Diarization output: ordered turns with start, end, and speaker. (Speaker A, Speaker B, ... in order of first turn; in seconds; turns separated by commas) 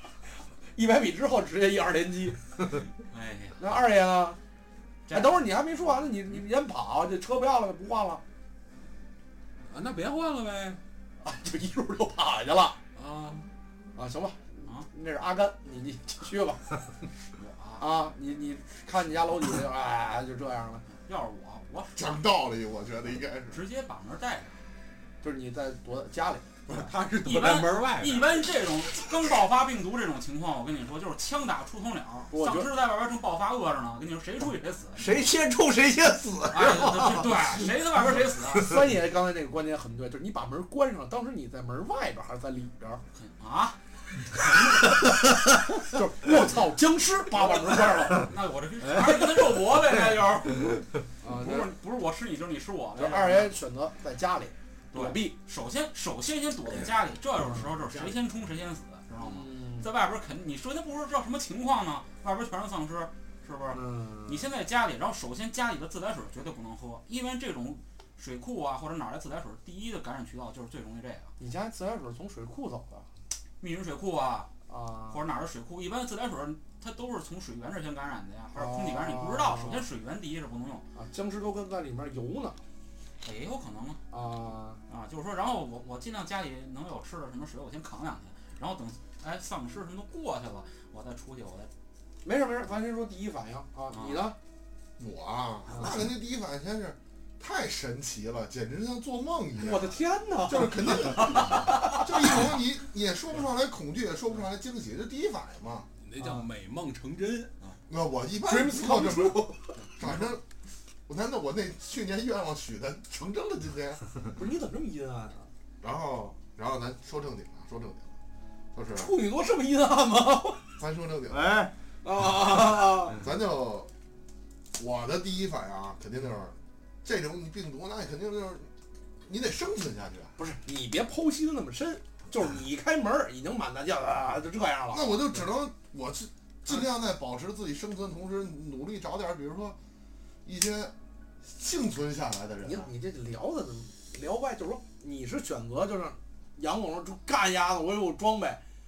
Speaker A: 0.8-2.4, Speaker B: 3.1-3.7, Speaker A: 3.6-4.4, Speaker B: 5.1-5.4, Speaker A: 5.1-8.2, Speaker C: 9.7-10.8, Speaker A: 11.2-12.8, Speaker C: 12.9-13.5, Speaker A: 14.0-16.6, Speaker B: 17.4-17.9, Speaker A: 17.8-20.9, Speaker B: 20.9-22.2, Speaker D: 22.0-23.6, Speaker B: 23.5-24.6, Speaker A: 25.2-26.5, Speaker C: 26.7-28.4, Speaker B: 27.2-35.2, Speaker A: 32.3-32.7, Speaker E: 35.0-37.7, Speaker B: 36.5-38.7, Speaker A: 38.6-43.0, Speaker B: 43.1-43.8, Speaker B: 44.4-44.8, Speaker A: 45.7-48.3, Speaker B: 47.5-53.5, Speaker E: 48.9-49.6, Speaker A: 51.2-51.7, Speaker A: 53.0-55.4, Speaker B: 54.9-71.3, Speaker E: 57.8-58.1, Speaker A: 59.2-59.9, Speaker A: 63.7-64.5, Speaker A: 71.4-73.1, Speaker B: 73.6-74.5, Speaker A: 74.7-75.2, Speaker B: 75.1-80.8, Speaker A: 78.5-79.9, Speaker A: 81.0-82.6, Speaker B: 83.2-84.0, Speaker A: 84.1-84.8, Speaker B: 84.9-91.7, Speaker A: 92.2-94.4, Speaker B: 93.9-94.3, Speaker D: 95.0-99.9, Speaker A: 95.7-96.1, Speaker A: 99.6-102.4, Speaker D: 100.5-105.9, Speaker C: 106.0-107.5, Speaker A: 106.2-106.5, Speaker D: 107.9-110.4, Speaker A: 108.4-109.8, Speaker D: 111.1-114.0, Speaker A: 114.3-115.5, Speaker D: 115.8-118.1, Speaker D: 118.7-119.1, Speaker A: 118.9-120.7, Speaker D: 120.8-121.6, Speaker E: 121.3-121.7, Speaker A: 122.0-123.2, Speaker D: 123.2-123.9, Speaker D: 124.8-128.7, Speaker D: 129.3-130.3, Speaker A: 130.4-135.4, Speaker D: 134.9-139.8, Speaker D: 140.4-140.9, Speaker D: 141.5-142.9, Speaker A: 142.6-148.6